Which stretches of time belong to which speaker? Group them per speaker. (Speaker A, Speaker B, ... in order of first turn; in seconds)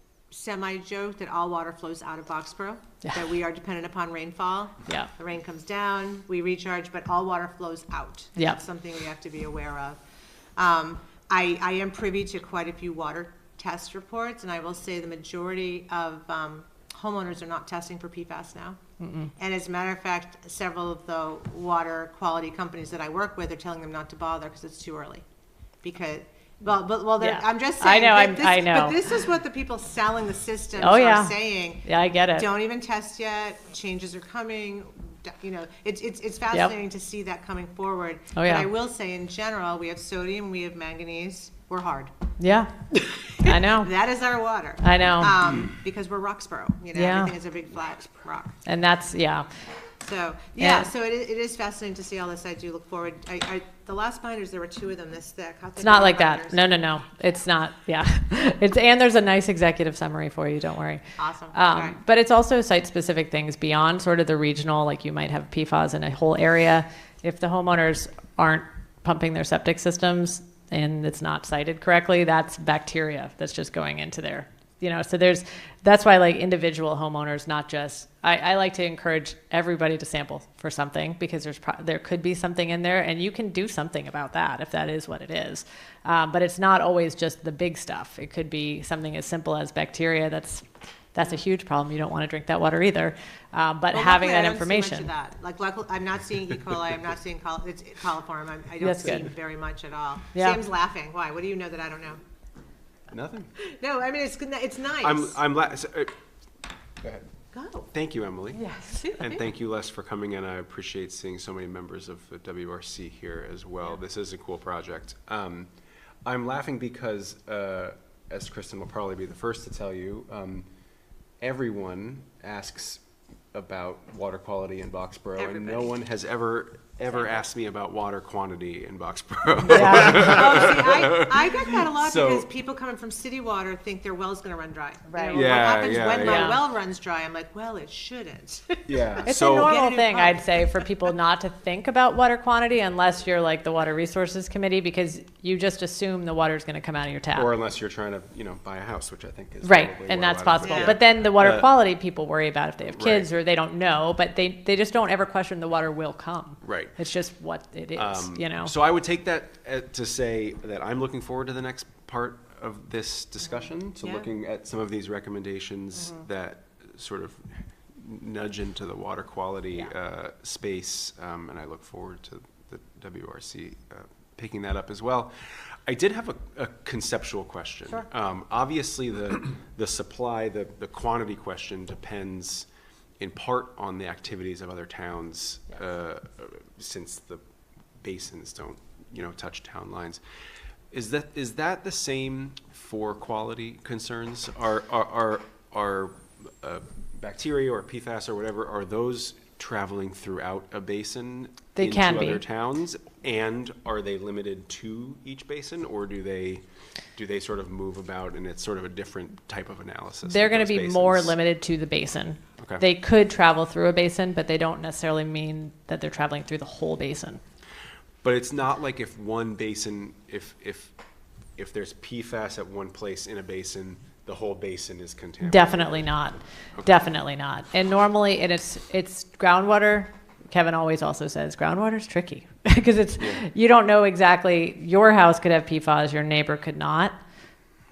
Speaker A: 0.3-10.0, 10.6-18.8, 19.4-25.2, 25.8-42.1, 42.9-48.6, 50.0-56.9, 61.2-62.0, 93.9-102.2, 103.6-105.4, 107.5-107.9, 125.4-125.9, 130.0-140.7, 150.6-151.0
Speaker B: 19.0-19.3, 27.2-29.1, 30.8-32.5, 38.3-38.7, 42.4-42.7, 43.4-43.9, 44.8-45.4, 46.9-47.3, 48.6-49.5, 50.6-50.9, 55.8-95.1, 98.8-99.3, 100.3-100.6, 108.5-109.2, 129.6-130.7, 135.1-135.6, 136.2-136.6, 139.2-147.5, 149.6-158.7, 201.7-202.4, 210.2-217.4, 225.4-237.2
Speaker C: 103.1-103.5, 105.0-106.1, 107.0-107.2, 107.9-115.7, 116.2-120.7, 121.4-123.0, 123.5-132.5, 135.3-136.6, 138.9-139.8, 147.3-151.7, 152.8-153.3, 156.6-156.9, 157.9-182.7, 183.2-187.4, 188.0-190.2, 190.9-206.6, 207.1-211.3, 212.6-212.8, 218.2-220.9, 221.6-226.2, 233.2-233.4